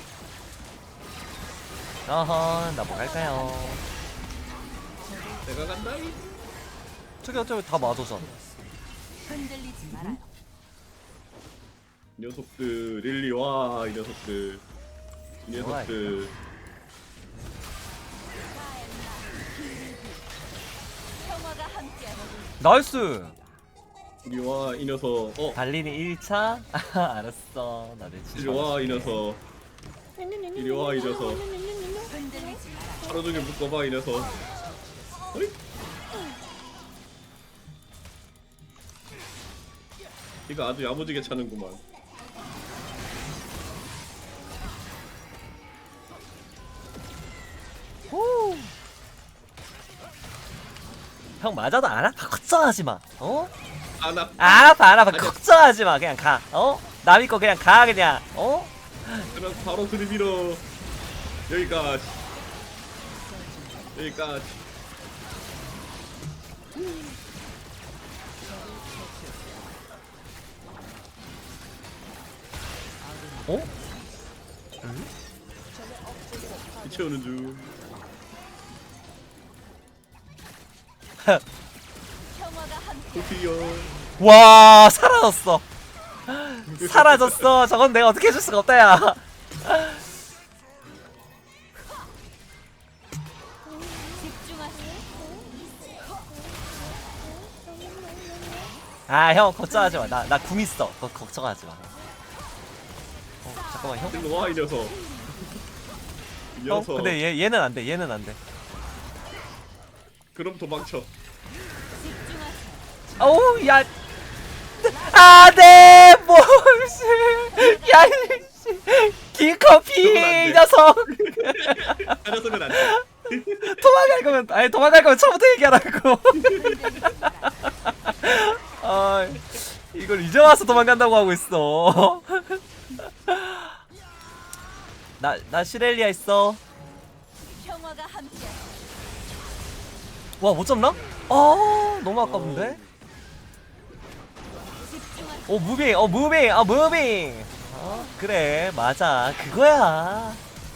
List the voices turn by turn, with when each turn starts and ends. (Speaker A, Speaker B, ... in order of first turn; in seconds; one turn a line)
Speaker A: 2.1-3.8
Speaker B: 2.9-3.9
Speaker C: 5.4-6.2
Speaker A: 7.2-8.3
Speaker B: 9.2-10.3
Speaker C: 12.2-14.6
Speaker C: 15.4-16.3
Speaker A: 15.5-16.2
Speaker B: 18.5-20.2
Speaker B: 21.2-22.5
Speaker A: 22.6-23.4
Speaker C: 24.2-25.6
Speaker A: 25.5-29.2
Speaker C: 28.4-29.4
Speaker C: 30.5-31.7
Speaker B: 32.1-33.1
Speaker C: 33.0-34.4
Speaker C: 40.5-41.8
Speaker A: 48.1-48.7
Speaker A: 51.4-53.5
Speaker C: 54.0-55.4
Speaker A: 54.4-59.3
Speaker C: 59.2-60.6
Speaker C: 61.5-62.2
Speaker C: 63.9-64.6
Speaker C: 66.8-67.1
Speaker A: 73.5-73.7
Speaker A: 74.8-75.1
Speaker C: 76.8-77.8
Speaker B: 82.2-83.5
Speaker C: 83.1-84.0
Speaker A: 84.2-85.6
Speaker A: 86.3-90.1
Speaker C: 86.7-87.5
Speaker B: 94.2-95.5
Speaker A: 99.1-101.9
Speaker A: 103.4-104.2
Speaker B: 103.8-105.6
Speaker C: 104.1-105.0
Speaker C: 106.5-107.2
Speaker A: 106.7-108.4
Speaker C: 110.3-111.1
Speaker B: 111.9-113.0
Speaker A: 113.2-113.9
Speaker A: 114.8-123.0
Speaker B: 115.1-115.5
Speaker B: 117.5-118.5
Speaker C: 120.0-124.0
Speaker A: 123.6-126.6
Speaker C: 126.3-127.0
Speaker B: 126.5-127.5
Speaker A: 127.4-133.8
Speaker A: 135.2-136.6
Speaker B: 137.4-138.8
Speaker A: 140.4-142.8
Speaker C: 142.2-142.9
Speaker B: 144.9-145.4
Speaker A: 145.5-150.4